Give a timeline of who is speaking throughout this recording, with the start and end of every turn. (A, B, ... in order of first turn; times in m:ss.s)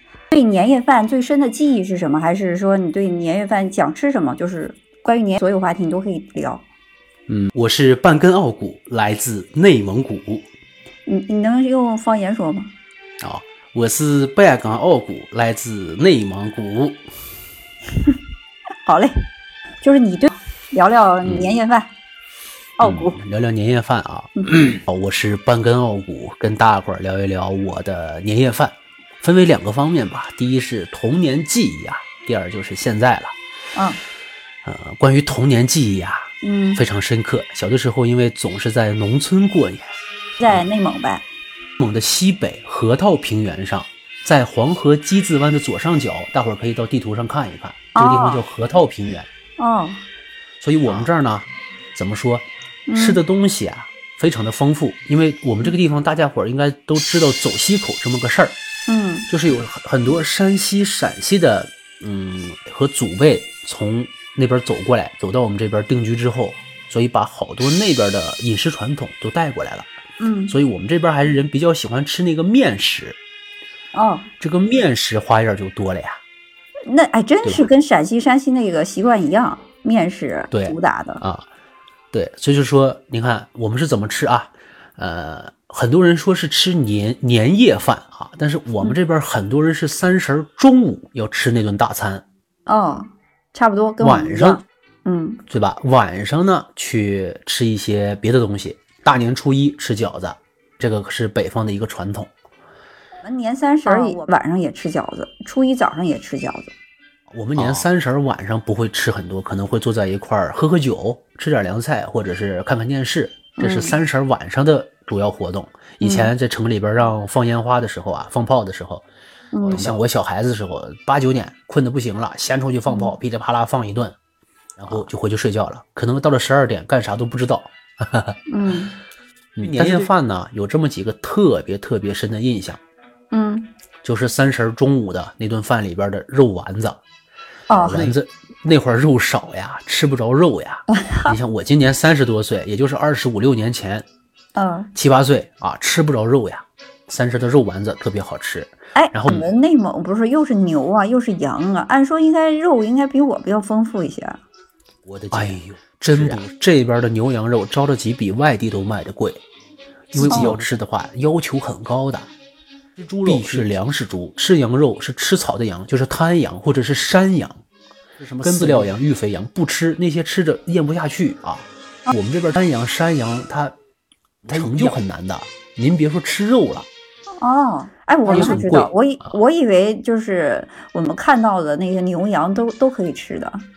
0:00.3-0:06.6 A
0:07.3-0:10.5 B
0:11.1-0:12.7 A
0:13.2-0:17.0 B
0:18.8-0:19.1 A
0:19.8-0:21.9 A
0:21.2-0:21.5 B
0:22.8-0:23.2 A
0:22.8-0:33.3 B
0:24.4-0:24.7 A
0:33.7-0:34.0 A
0:34.6-0:39.9 B
0:36.4-0:36.8 A
0:40.4-0:41.2 A
0:41.8-0:49.3 B
0:48.0-0:48.4 A
0:49.6-0:50.0 A
0:50.6-0:58.6 B
0:52.9-0:53.2 A
0:58.9-0:59.3 A
0:59.3-1:09.9 B
1:10.2-1:10.6 A
1:10.5-1:13.2 B
1:13.9-1:14.3 A
1:14.4-1:16.2 B
1:16.9-1:21.2 A
1:17.4-1:17.7 B
1:20.5-1:21.4 B
1:22.1-1:32.2 B
1:32.7-1:35.4 A
1:34.0-1:34.6 B
1:35.5-1:42.3 B
1:43.2-1:46.7 A
1:47.3-1:59.0 B
1:53.6-1:54.0 A
1:56.0-1:56.3 A
1:59.5-1:59.9 A
1:59.6-2:04.2 B
2:02.9-2:03.1 A
2:04.8-2:08.4 B
2:08.5-2:09.0 A
2:09.6-2:12.8 B
2:09.8-2:10.1 A
2:13.3-2:13.7 A
2:14.0-2:17.0 B
2:17.7-2:18.2 A
2:17.7-2:24.1 B
2:20.9-2:21.4 A
2:24.6-2:24.9 A
2:25.0-2:29.5 B
2:29.0-2:34.4 A
2:35.1-2:36.5 C
2:35.3-2:39.4 B
2:40.1-2:42.3 B
2:40.2-2:40.6 C
2:40.3-2:40.6 A
2:43.0-2:43.7 C
2:43.2-2:47.6 B
2:48.2-2:48.9 C
2:48.4-2:53.7 B
2:54.5-2:54.9 C
2:54.5-2:56.9 B
2:57.4-3:03.6 A
2:58.3-2:58.9 B